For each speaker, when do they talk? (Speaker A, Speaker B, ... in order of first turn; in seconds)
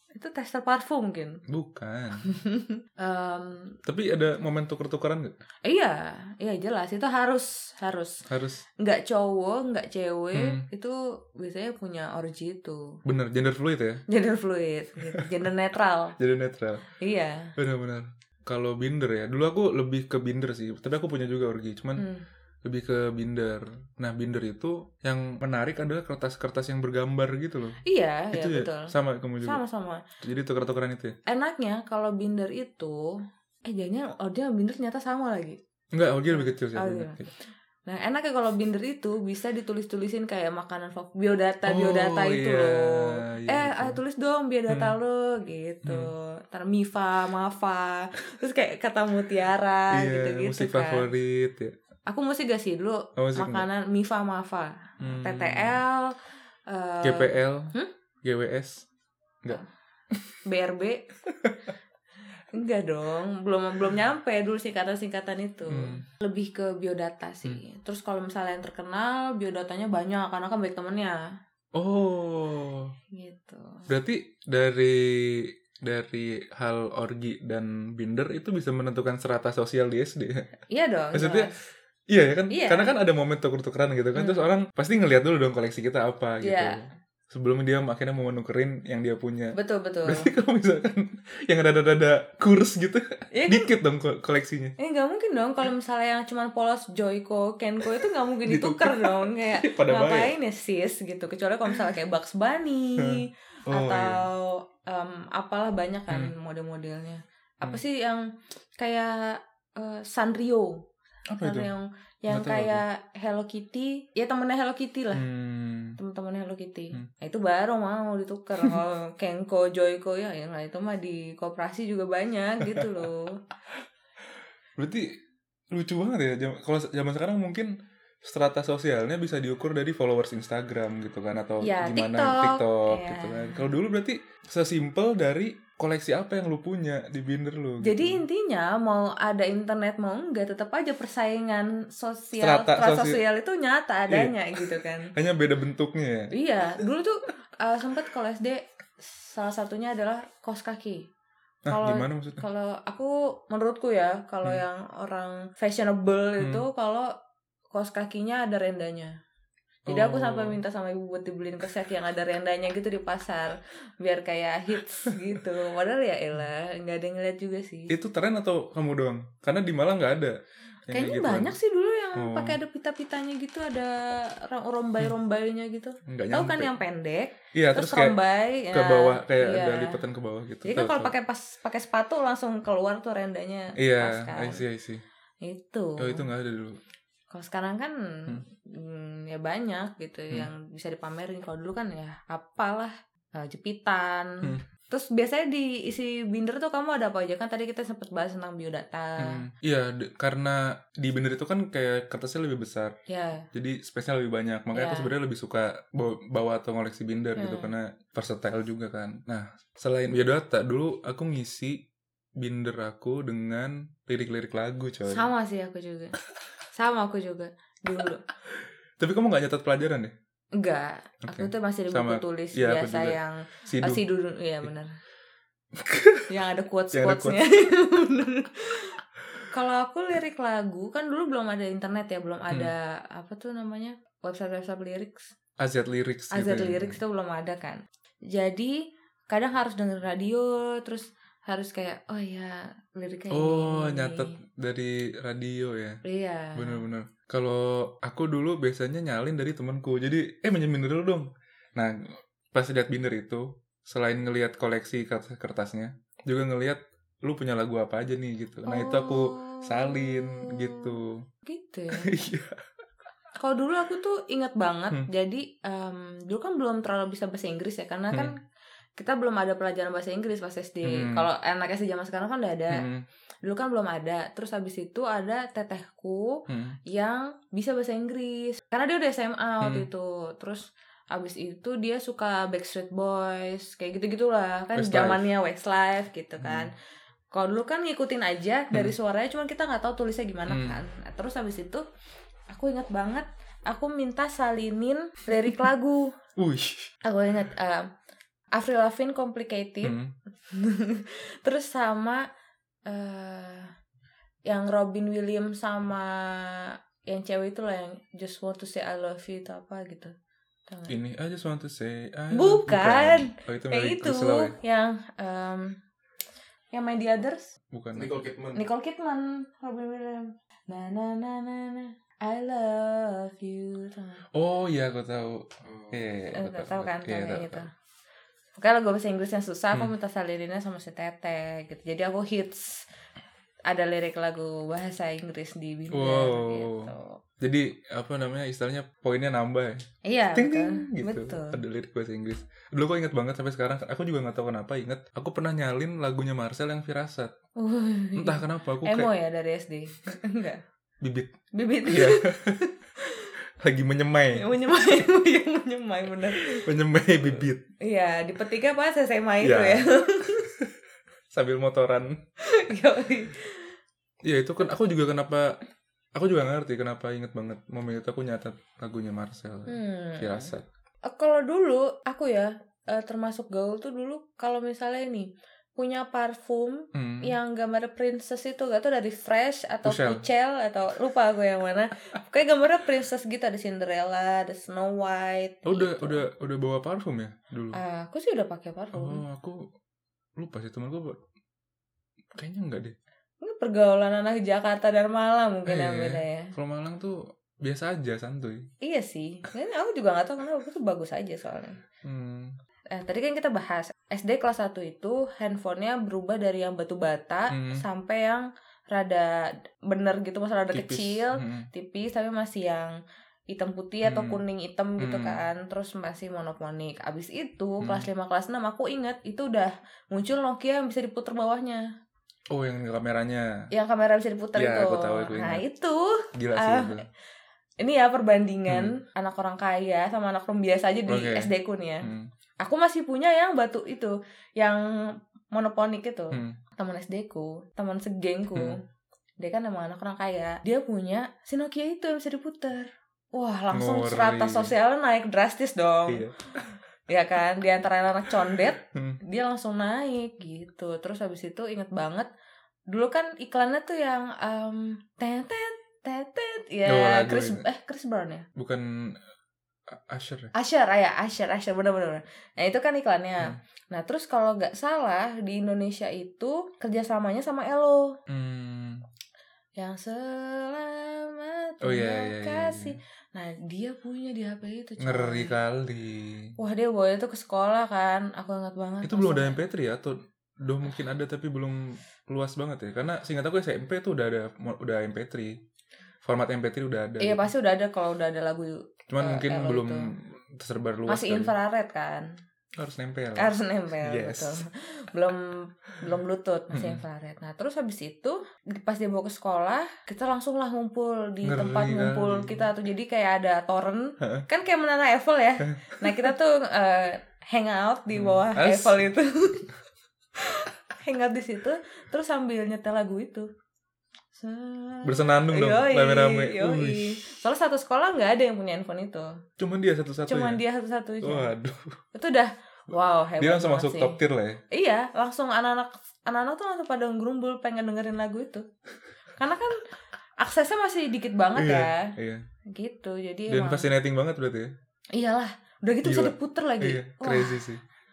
Speaker A: 0.1-1.4, 2.2-3.8, 5.6-8.2, 8.8-13.0, 14.1-16.2, 17.0-17.5, 21.9-22.2, 27.8-30.0, 31.2-35.6, 36.3-37.3, 37.9-51.1, 52.1-57.9, 60.4-61.0, 62.5-71.2, 73.1-73.9, 80.7-81.6, 82.5-82.9, 84.1-84.5, 86.4-86.8, 89.5-90.3, 93.3-93.7, 94.8-110.9, 111.4-115.2, 116.0-123.4, 131.6-133.7, 137.8-145.1, 146.3-151.1, 151.7-157.1, 157.7-159.2, 159.9-167.9, 170.9-180.0, 180.6-184.6, 185.4-186.3, 187.3-199.4, 203.1-203.5, 204.7-205.1, 207.3-207.7, 215.1-216.2, 216.7-218.2, 220.5-224.9, 226.3-229.0, 229.5-235.3, 236.3-244.4, 246.0-246.8, 258.6-260.9, 261.4-262.1, 263.4-268.4, 269.0-272.9, 273.4-286.7, 287.3-291.8, 292.5-296.1, 297.0-297.9, 298.5-300.0, 300.5-302.2, 302.9-303.7, 304.5-310.1, 310.7-311.0, 312.3-315.8, 316.7-317.5, 318.5-324.2, 326.3-327.7, 328.6-332.9, 333.7-337.2, 340.0-341.6, 347.6-350.6, 351.5-353.3, 354.3-356.7, 357.2-360.5, 362.4-363.7, 369.7-370.5, 371.0-386.2, 387.7-389.2, 393.4-396.5, 398.8-401.8, 402.9-412.9, 413.5-421.9, 423.7-427.0, 427.8-438.8, 439.4-446.3, 447.1-452.3, 452.9-458.5, 460.5-468.2, 469.8-475.5, 476.6-479.6, 487.2-490.1, 491.1-492.3, 493.4-509.7, 510.4-513.5, 514.3-519.4, 520.3-521.5, 522.1-524.2, 524.7-528.6, 529.4-529.9, 530.4-532.1, 532.7-533.9, 535.1-537.6
Speaker B: 1.5-2.3, 3.9-5.3, 8.3-8.6, 10.3-10.6, 13.0-14.0, 16.2-16.8, 17.6-22.1, 22.6-27.8, 28.3-29.6, 30.2-31.2, 35.9-37.3, 41.6-44.0, 44.7-45.0, 45.8-46.1, 49.9-51.7, 53.2-53.6, 55.0-55.8, 57.0-58.9, 61.2-61.6, 65.7-66.0, 71.7-72.9, 73.9-80.5, 81.1-81.5, 82.1-94.8, 98.0-100.3, 103.0-104.3, 111.3-111.7, 112.3-112.8, 115.1-116.0, 124.8-125.2, 125.7-138.2, 142.4-143.2, 144.1-146.3, 151.7-152.4, 156.4-156.6, 159.9-160.6, 167.9-171.5, 172.1-172.6, 176.1-176.7, 177.5-178.2, 178.7-181.1, 183.8-185.0, 186.0-186.8, 199.2-203.0, 203.5-211.8, 212.4-215.3, 219.0-220.1, 221.2-224.0, 225.7-226.3, 226.9-227.4, 235.6-237.0, 243.3-246.0, 246.6-261.2, 261.9-262.6, 270.8-271.3, 272.7-273.0, 276.5-276.8, 279.6-279.9, 284.7-285.3, 286.4-286.7, 290.5-290.8, 296.4-296.9, 299.8-300.1, 310.9-314.5, 317.7-318.6, 324.3-327.6, 335.9-347.3, 348.1-349.1, 351.0-351.3, 351.9-352.7, 353.6-354.5, 356.3-357.6, 359.4-360.7, 361.3-362.2, 364.2-365.6, 366.1-370.6, 376.9-377.4, 379.8-380.2, 385.6-387.8, 388.9-389.7, 390.4-391.2, 392.3-392.9, 395.6-398.7, 402.0-402.5, 407.5-407.8, 410.7-411.7, 414.0-414.4, 415.0-415.4, 417.8-418.1, 422.5-423.7, 424.6-425.6, 426.3-427.1, 428.7-428.9, 431.1-432.3, 436.3-436.6, 443.7-444.7, 446.1-446.7, 448.8-449.2, 456.9-457.6, 458.6-459.2, 459.9-460.5, 468.3-469.0, 471.8-472.9, 475.0-476.5, 479.0-485.6, 486.2-487.5, 489.1-491.5, 492.8-494.6, 496.7-497.0, 501.4-502.7, 504.2-504.4, 505.6-506.3, 508.1-509.1, 515.0-517.2, 519.6-520.6, 521.2-522.0, 523.4-524.6, 531.5-532.4, 533.5-534.7, 536.0-537.8